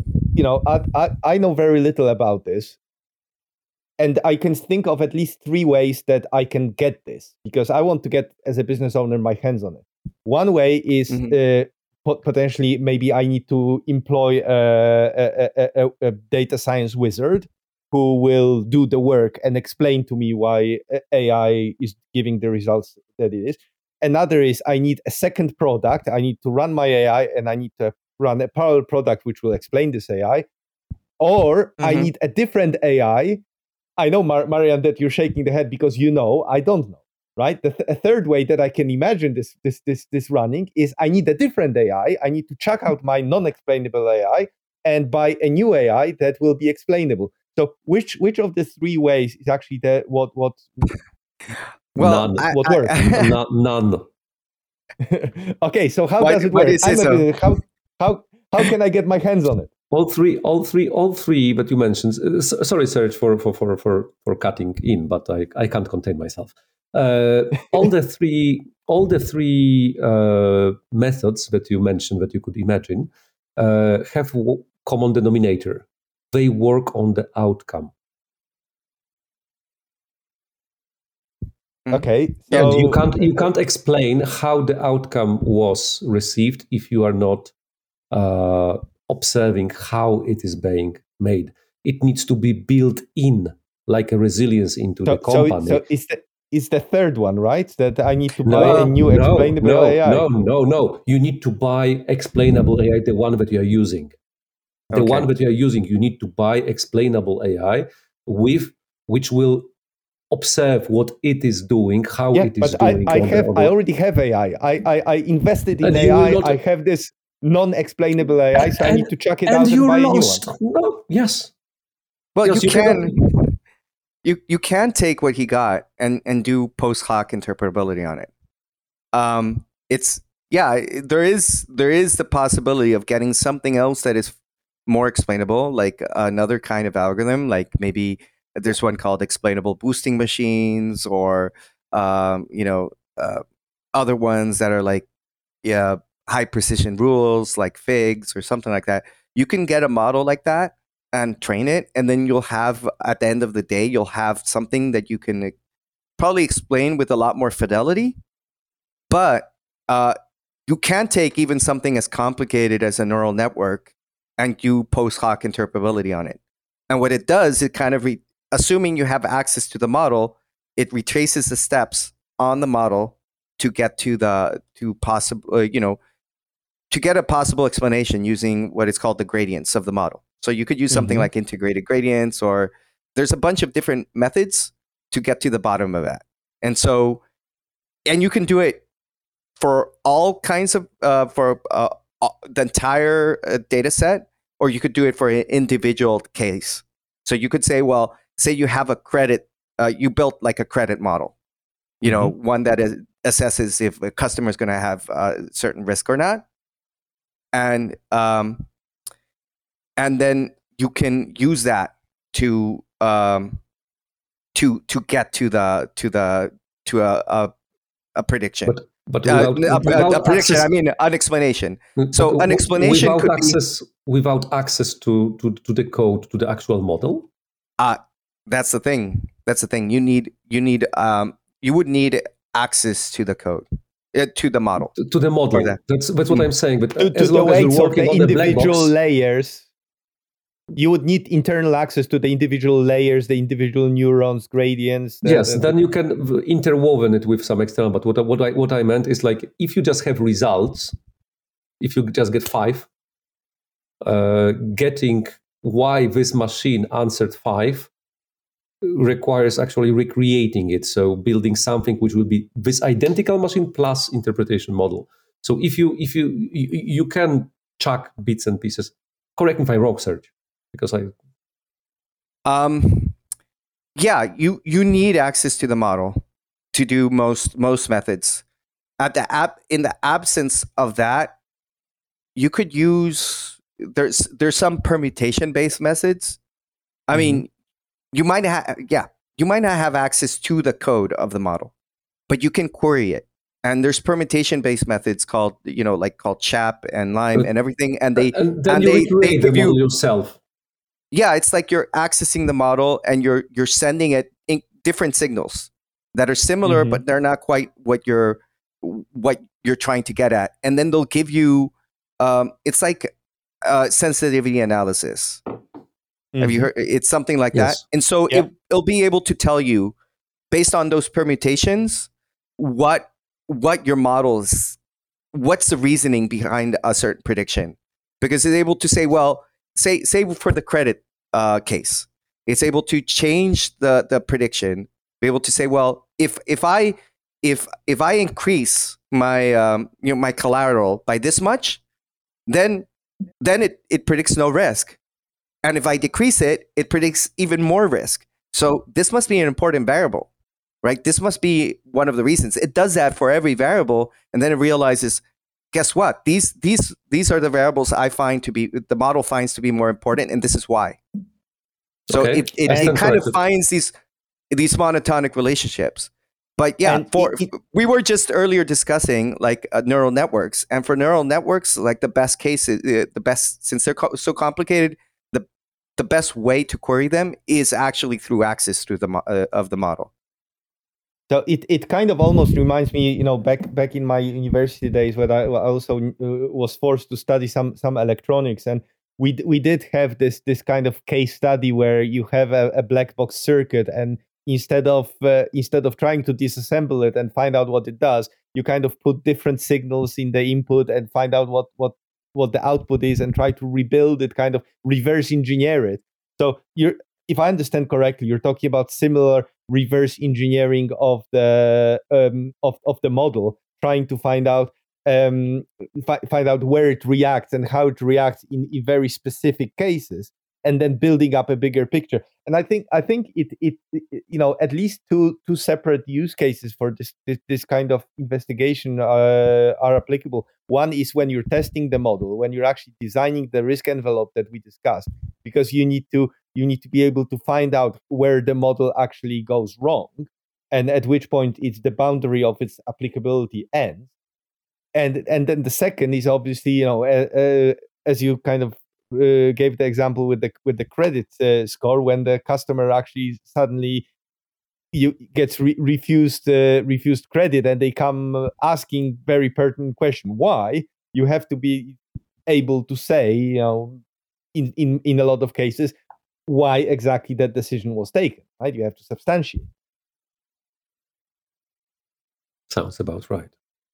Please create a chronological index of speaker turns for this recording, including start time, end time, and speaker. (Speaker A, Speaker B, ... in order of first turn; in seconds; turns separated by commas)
Speaker A: 0.3-2.8, Speaker A: 4.0-30.5, Speaker B: 11.1-11.3, Speaker A: 31.2-33.4, Speaker B: 31.8-32.1, Speaker A: 34.0-51.0, Speaker B: 52.0-53.4, Speaker C: 52.0-54.1, Speaker A: 52.5-53.0, Speaker A: 55.0-59.7, Speaker B: 56.2-57.3, Speaker C: 59.9-77.9, Speaker B: 81.8-82.8, Speaker A: 81.9-83.4, Speaker C: 82.5-87.5, Speaker C: 88.1-95.8, Speaker A: 95.1-100.3, Speaker C: 98.5-104.1, Speaker B: 98.6-98.9, Speaker B: 104.9-105.3, Speaker C: 104.9-109.7, Speaker C: 110.3-113.7, Speaker A: 112.3-120.4, Speaker C: 115.8-116.6, Speaker C: 118.7-121.5, Speaker B: 122.4-123.6, Speaker C: 122.4-123.2, Speaker B: 124.2-128.3, Speaker B: 129.1-143.4, Speaker B: 143.9-145.1, Speaker B: 145.6-155.5, Speaker B: 156.2-158.2, Speaker B: 159.1-160.2, Speaker B: 160.7-166.4, Speaker B: 166.9-176.0, Speaker B: 176.9-187.2, Speaker B: 188.1-188.8, Speaker B: 189.6-201.3, Speaker B: 202.0-206.4, Speaker B: 207.5-208.7, Speaker B: 210.0-213.6, Speaker B: 214.5-217.5, Speaker B: 218.2-223.6, Speaker C: 218.7-220.7, Speaker C: 222.0-227.3, Speaker B: 227.8-234.9, Speaker C: 234.9-238.9, Speaker B: 235.5-235.8, Speaker A: 237.0-239.7, Speaker A: 240.8-245.8, Speaker C: 245.2-250.9, Speaker C: 251.8-252.9, Speaker C: 254.0-257.9, Speaker C: 258.8-271.1, Speaker B: 272.5-273.2, Speaker B: 274.0-276.2, Speaker B: 276.7-278.4, Speaker B: 279.0-281.3, Speaker B: 282.4-286.4, Speaker B: 287.1-287.5, Speaker B: 288.1-291.7, Speaker B: 292.3-299.8, Speaker C: 298.2-300.4, Speaker B: 301.1-315.4, Speaker A: 306.6-307.0, Speaker A: 316.3-316.7, Speaker B: 316.4-319.9, Speaker C: 317.5-317.8, Speaker B: 320.5-324.8, Speaker B: 325.3-341.8, Speaker B: 342.5-342.9, Speaker B: 343.4-345.0, Speaker B: 345.6-350.3, Speaker B: 350.8-355.2, Speaker B: 355.7-361.0, Speaker C: 362.1-363.4, Speaker B: 362.1-363.9, Speaker A: 362.7-362.9, Speaker B: 364.5-375.5, Speaker A: 366.8-367.5, Speaker B: 376.0-380.1, Speaker A: 381.3-444.1, Speaker A: 444.9-454.1, Speaker A: 454.9-464.0, Speaker A: 464.5-465.9, Speaker A: 466.5-469.7, Speaker C: 472.7-473.5